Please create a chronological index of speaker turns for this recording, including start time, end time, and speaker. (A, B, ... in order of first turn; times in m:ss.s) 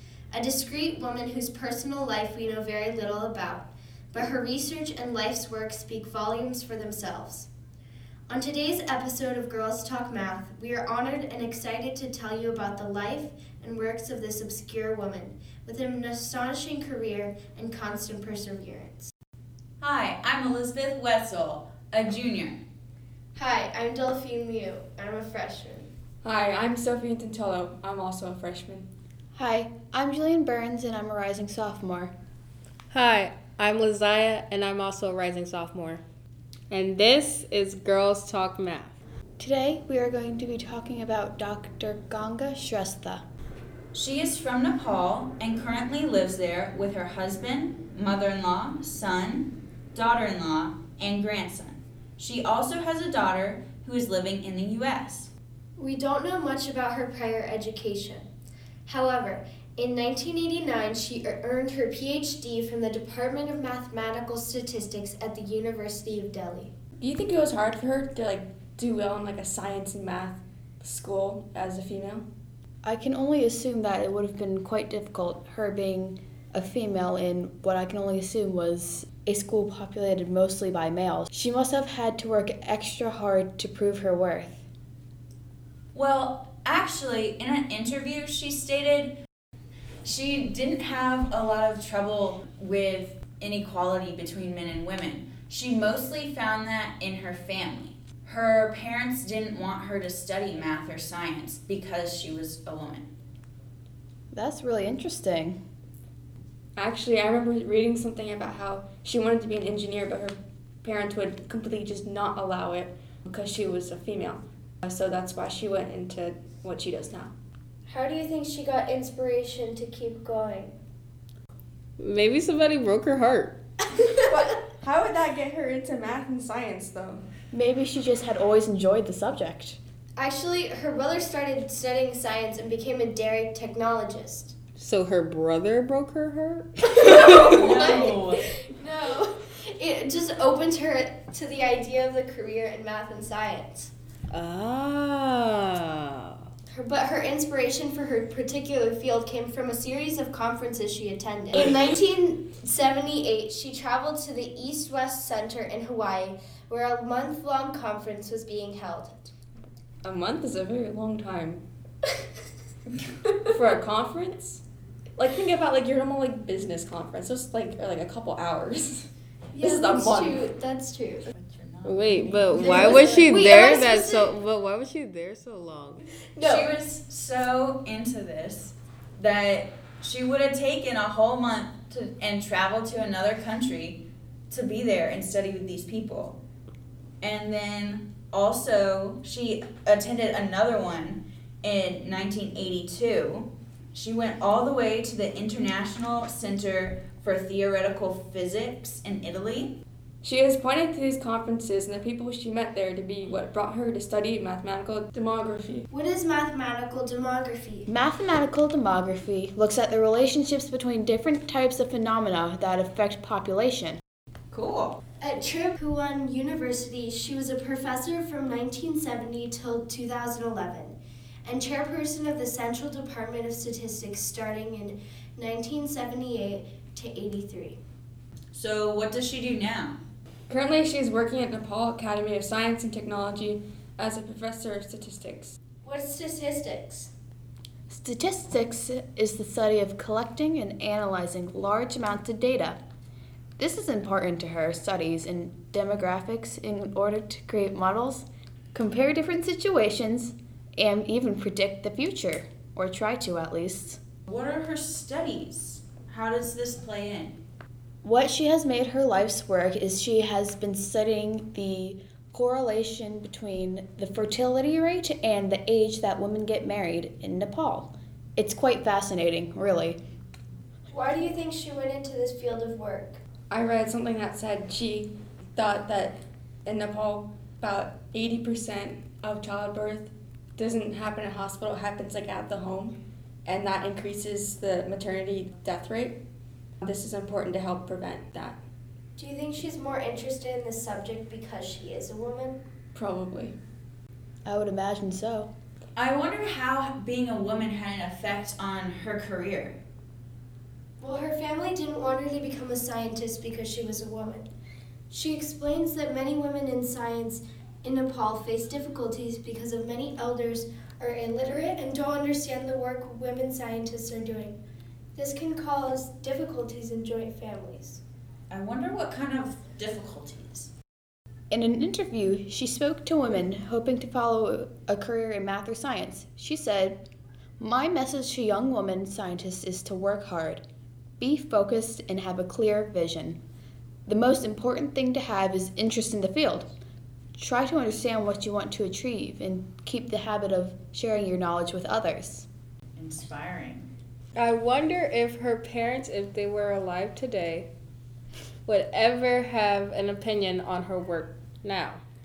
0:00.3-0:07.5 A
0:08.3-0:19.1 A
0:19.8-0:22.6 B
0:23.4-0:25.9 A
0:26.2-0:28.9 C
0:29.4-0:32.1 D
0:32.9-0:36.0 E
0:36.7-0:39.0 E
0:39.4-0:43.2 D
0:43.9-0:55.3 B
0:55.8-0:58.3 A
0:58.9-1:06.7 A
1:07.0-1:12.2 C
1:12.8-1:24.7 D
1:25.9-1:29.2 B
1:30.0-1:43.1 B
1:44.3-1:45.6 D
1:46.8-1:57.3 C
1:57.9-2:00.8 A
2:02.0-2:03.6 E
2:04.0-2:07.2 C
2:07.5-2:09.8 D
2:10.2-2:14.5 A
2:14.8-2:17.9 E
2:17.0-2:23.9 A
2:17.5-2:18.4 B
2:24.3-2:26.4 E
2:26.7-2:39.3 A
2:40.0-2:41.6 C
2:43.5-2:44.6 C
2:45.2-2:50.4 C
2:49.5-2:51.3 A
2:51.3-2:53.3 B
2:51.9-2:56.0 E
2:52.5-2:54.3 A
2:56.4-3:06.4 B
2:56.4-2:56.7 C
3:07.2-3:19.8 B
3:20.2-3:25.9 C
3:25.9-3:27.9 A
3:27.9-3:34.0 D
3:34.5-3:35.0 B
3:35.2-3:47.8 A
3:48.5-3:50.0 B
3:50.5-3:55.6 C
3:55.8-3:57.1 A
3:57.9-4:02.8 D
4:03.6-4:14.0 D
4:14.3-4:17.4 B
4:18.0-4:30.0 D
4:30.9-4:33.2 A
4:33.5-4:46.2 C
4:46.8-4:48.6 C
4:49.2-4:52.6 A
4:53.0-4:53.6 C
4:54.5-4:55.5 D
4:56.0-4:59.8 B
5:01.0-5:04.5 A
5:05.1-5:14.6 A
5:15.2-5:18.0 A
5:18.5-5:20.7 B
5:21.5-5:27.0 D
5:27.6-5:30.6 D
5:31.2-5:33.4 D
5:34.1-5:36.7 D
5:37.4-5:42.5 D
5:43.0-5:43.9 B
5:44.4-5:47.7 E
5:48.7-5:52.0 E